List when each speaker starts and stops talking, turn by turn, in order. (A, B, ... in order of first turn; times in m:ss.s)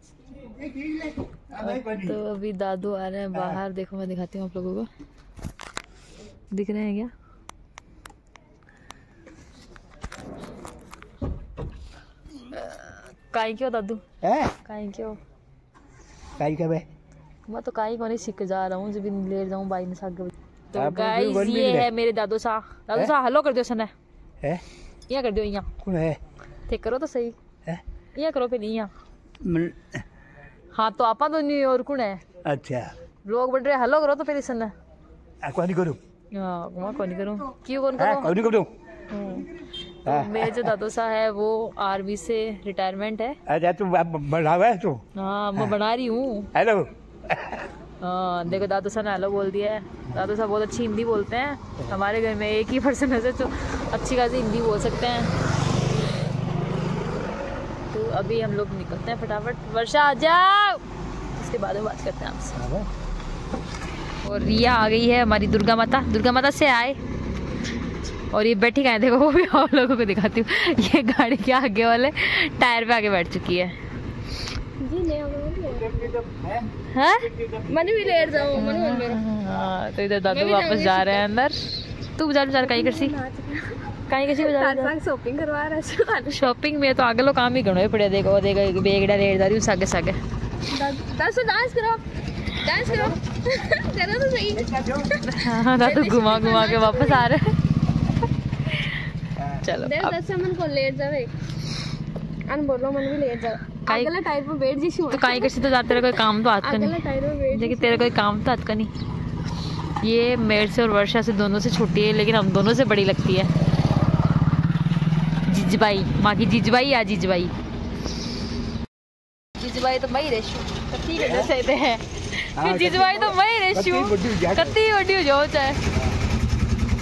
0:00.6-0:02.2 A
0:01.5-0:04.9 B
0:06.5-0:07.1 B
0:12.5-0:14.0 B
0:14.2-0:14.5 A
0:14.6-0:15.2 B
0:16.4-0:16.9 A
0:17.5-0:23.9 B
0:20.7-0:21.9 A
0:25.1-0:25.7 B
0:25.8-0:26.2 A
0:26.7-0:27.4 B
0:28.2-0:28.9 B
0:29.4-0:30.0 A
0:30.7-0:32.2 B
0:32.4-0:32.9 A
0:33.3-0:34.7 B
0:35.4-0:36.0 A
0:36.3-0:38.4 B
0:38.0-0:38.7 A
0:39.1-0:39.5 B
0:40.0-0:43.4 B
0:40.1-0:40.7 A
0:43.5-0:45.0 A
0:45.2-0:46.5 B
0:46.6-0:47.7 A
0:48.0-0:55.3 B
0:57.9-1:02.6 B
1:02.6-1:02.9 A
1:04.2-1:07.0 B
1:08.3-1:13.8 B
1:14.8-1:16.2 C
1:16.8-1:17.3 B
1:17.6-1:19.2 C
1:18.6-1:23.2 B
1:20.3-1:21.2 C
1:22.6-1:26.5 C
1:24.1-1:24.9 B
1:26.3-1:30.2 B
1:30.7-1:35.2 C
1:35.1-1:37.6 B
1:35.7-1:37.3 C
1:38.7-1:39.0 B
1:39.5-1:40.2 B
1:39.8-1:41.3 C
1:42.5-1:46.1 C
1:43.9-1:44.1 B
1:45.1-1:48.9 B
1:46.6-1:48.1 C
1:50.0-1:53.5 B
1:55.4-1:57.5 B
1:59.6-2:05.8 B
2:02.6-2:04.8 A